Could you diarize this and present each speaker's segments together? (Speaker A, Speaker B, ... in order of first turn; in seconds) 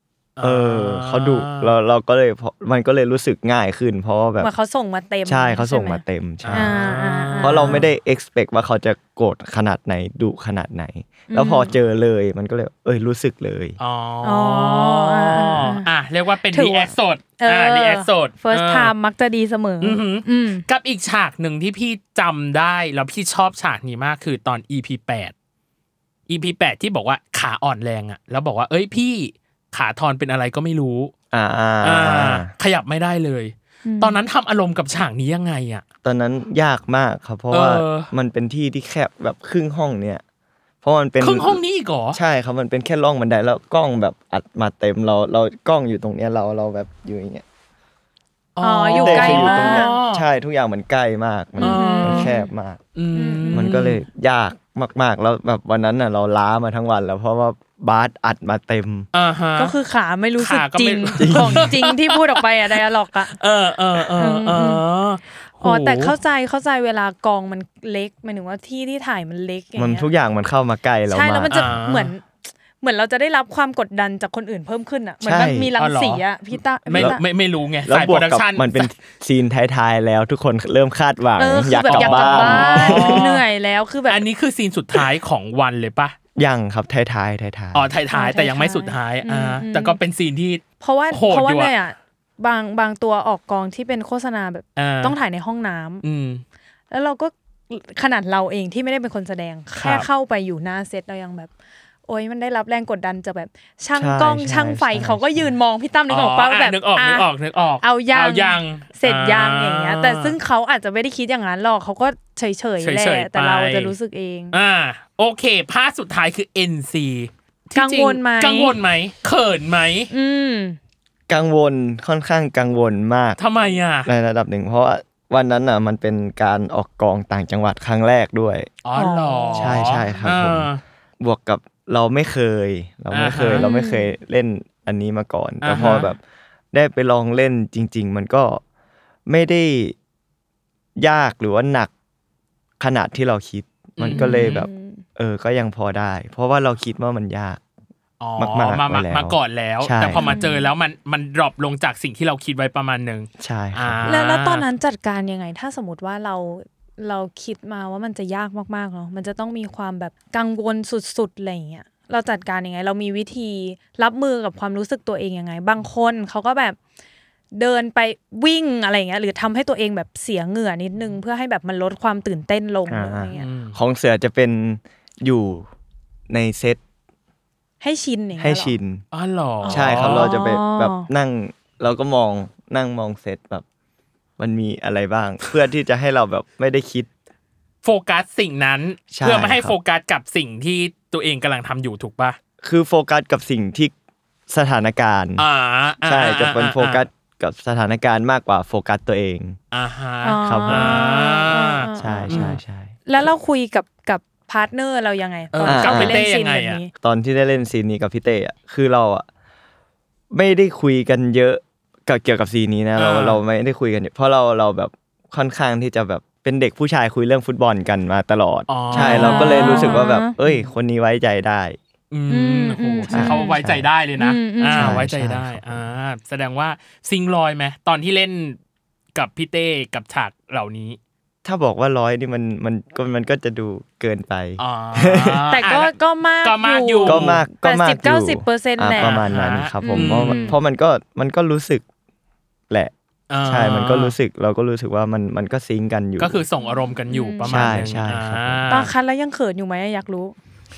Speaker A: 0.4-1.7, 6.4-7.8, 13.8-18.9, 19.8-25.3, 26.3-31.1, 31.8-35.8, 37.5-38.1, 41.2-42.2, 48.6-50.2, 51.6-52.3, 53.0-54.0, 59.1-59.8, 60.4-62.4, 63.4-66.2, 71.5-72.1, 75.8-76.2, 76.9-78.9, 81.9-83.4, 84.1-86.2, 87.7-91.7, 94.8-95.2, 96.0-96.4, 99.8-100.1, 106.1-110.4, 112.8-113.9, 114.5-120.1, 123.4-124.1, 128.8-130.8, 133.1-133.7, 135.6-136.1, 144.0-144.7, 148.2-154.7, 173.3-173.8, 179.1-180.3, 187.8-192.4, 195.4-197.1, 199.7-202.6, 205.5-206.8, 213.0-213.4, 218.7-220.6, 222.1-228.6, 229.2-231.0, 234.6-237.4, 238.9-240.5, 243.3-244.2, 246.2-248.9
Speaker B: 0.4-4.5, 5.3-6.9, 7.4-13.8, 31.3-32.5, 36.0-40.2, 40.8-41.6, 42.1-47.4, 48.9-52.8, 53.5-59.1, 61.2-61.7, 69.8-71.7, 75.2-75.7, 76.9-77.2, 77.9-83.3, 86.4-87.9, 104.0-105.5, 121.3-123.4, 124.1-128.7, 129.6-130.7, 131.2-136.2, 136.7-138.6, 139.3-139.9, 141.0-141.9, 142.8-147.6, 148.4-150.2, 153.4-154.1, 172.9-175.7, 176.3-176.8, 178.4-179.0, 179.7-183.6, 184.4-187.1, 189.1-189.8, 192.6-193.9, 194.5-195.4, 196.0-199.6, 200.4-201.1, 202.0-202.9, 205.7-206.2, 206.9-209.3, 210.3-221.8, 223.1-223.9, 224.7-225.8, 231.4-235.6, 237.1-241.8, 243.4-246.4, 247.4-248.7
Speaker C: 4.4-6.0, 6.5-7.8, 11.3-11.7, 14.2-15.9, 16.5-20.7, 33.9-34.2, 48.6-50.0, 51.6-52.5, 53.1-53.7, 59.6-63.4, 64.2-64.8, 65.6-70.1, 71.1-72.2, 72.8-77.2, 81.4-84.2, 88.1-90.0, 90.8-96.0, 96.9-101.5, 102.1-107.3, 107.8-114.6, 117.7-118.8, 120.1-120.8, 129.0-129.9, 133.5-134.1, 144.1-145.0, 150.2-150.7, 154.1-166.8, 167.6-173.5, 177.8-178.8, 179.6-181.1, 200.2-202.5, 203.1-206.9, 218.9-220.3, 222.3-223.6, 224.2-225.0, 235.5-239.2, 239.8-240.6, 246.6-247.7, 248.7-250.3